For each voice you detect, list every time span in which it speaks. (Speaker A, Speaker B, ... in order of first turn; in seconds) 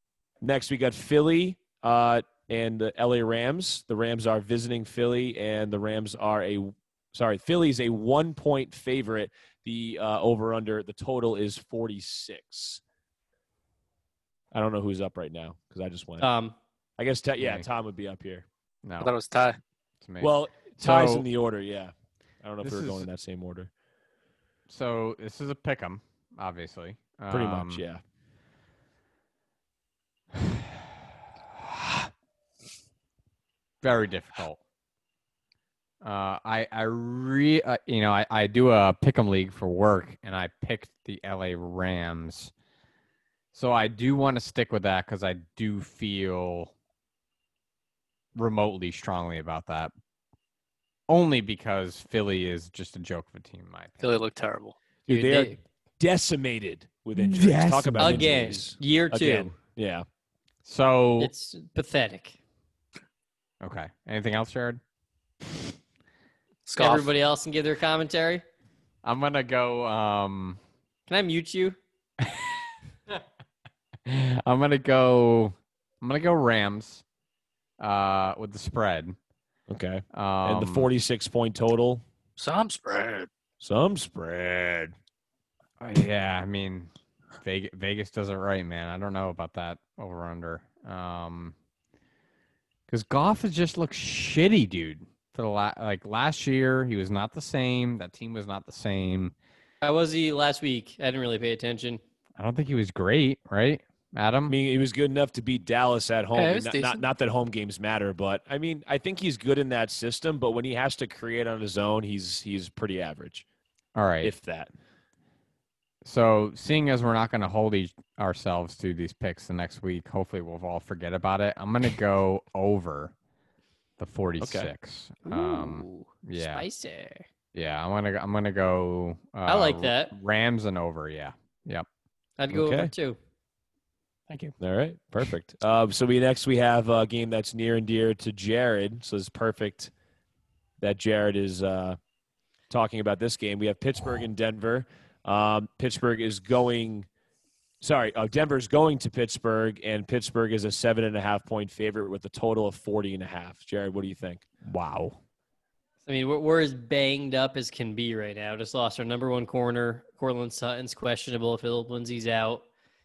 Speaker A: 0.4-12.8, 14.5-16.3, 17.0-18.5, 20.2-23.7, 27.3-28.0, 55.1-60.0, 79.7-82.0, 83.6-84.9, 104.5-113.4, 114.2-114.7, 124.4-124.7, 132.5-132.9, 134.6-139.9, 140.8-142.0, 142.7-147.1, 147.8-154.5
Speaker B: 16.2-16.6, 55.1-55.6, 58.0-59.5, 61.2-62.4, 66.8-68.4, 71.1-71.8, 99.8-102.0, 125.3-127.2, 129.5-130.1, 132.4-133.2, 156.1-162.6
Speaker C: 17.4-17.7, 18.8-19.1, 20.0-21.3, 22.6-23.1, 24.7-27.9, 33.8-34.6, 36.0-42.5, 43.5-46.7, 48.4-49.9, 51.1-54.1, 57.1-58.3, 60.6-61.3, 63.6-64.8, 69.0-70.6, 74.1-77.0, 77.8-79.2, 80.1-80.9, 85.8-86.9, 87.4-91.5, 92.9-99.3, 102.4-104.6, 114.0-114.3, 116.0-123.1, 124.0-126.7, 127.5-131.9, 134.3-134.5, 154.7-155.2
Speaker D: 19.0-19.6, 54.0-54.8, 66.7-67.1, 82.4-83.3, 106.4-107.0